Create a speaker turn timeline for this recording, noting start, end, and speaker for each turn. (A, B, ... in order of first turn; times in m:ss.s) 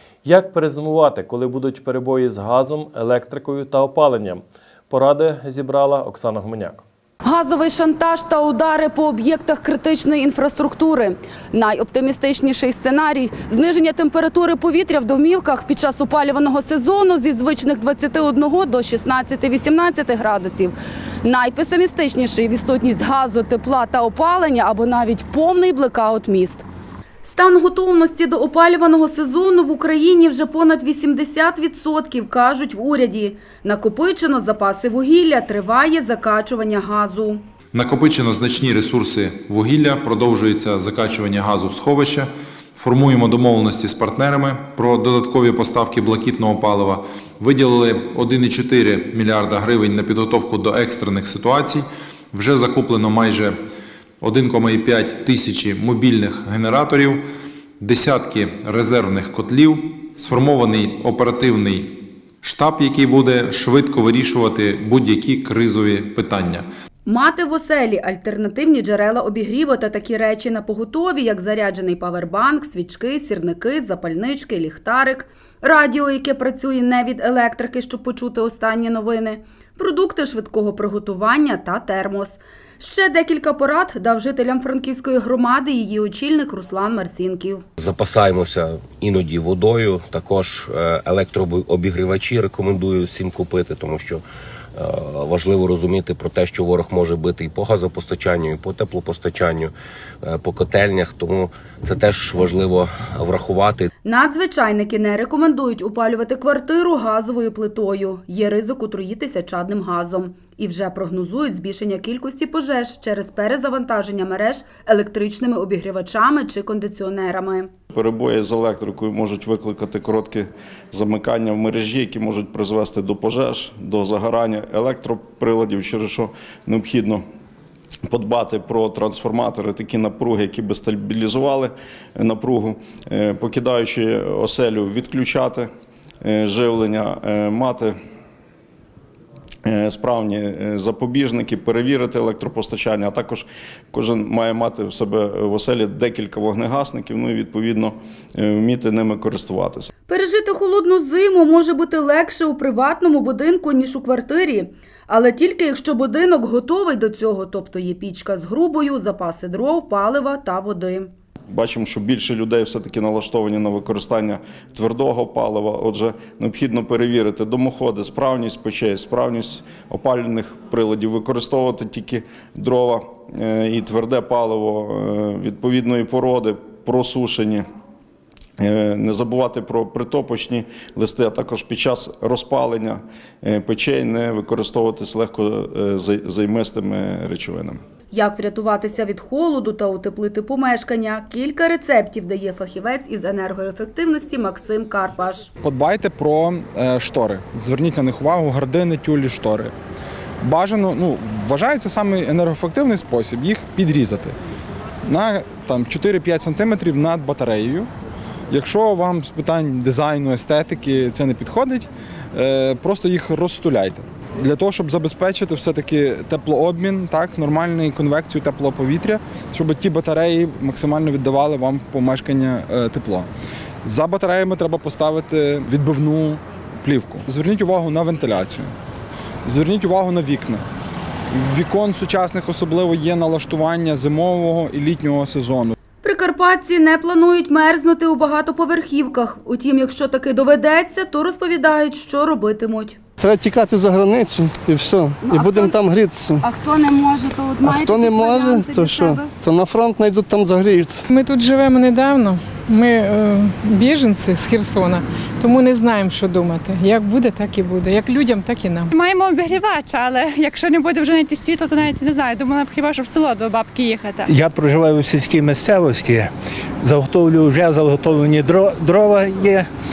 0:00.2-0:06.8 A
0:07.2-0:26.6 B
0:27.2-0:37.4 B
0:37.7-0:53.5 C
0:54.2-0:57.2 C
0:57.8-1:06.7 C
1:07.0-1:27.6 B
1:27.8-1:34.2 D
1:34.8-1:43.9 D
1:44.0-1:57.7 B
1:57.9-2:07.2 E
2:08.1-2:15.7 E
2:16.2-2:18.0 E
2:19.6-2:29.9 E
2:30.1-2:41.1 B
2:41.5-2:57.6 E
2:58.6-3:07.8 E
3:08.1-3:15.5 B
3:15.6-3:19.7 F
3:20.4-3:24.3 F
3:25.0-3:27.9 F
3:28.5-3:43.3 F
3:43.8-3:48.7 F
3:49.5-3:50.6 F
3:51.3-3:55.8 F
3:56.0-4:03.0 B
4:03.2-4:06.4 G
4:05.2-4:05.8 B
4:06.4-4:09.3 B
4:07.6-4:11.0 G
4:11.1-4:18.9 H
4:18.9-4:24.3 I
4:24.3-4:29.7 J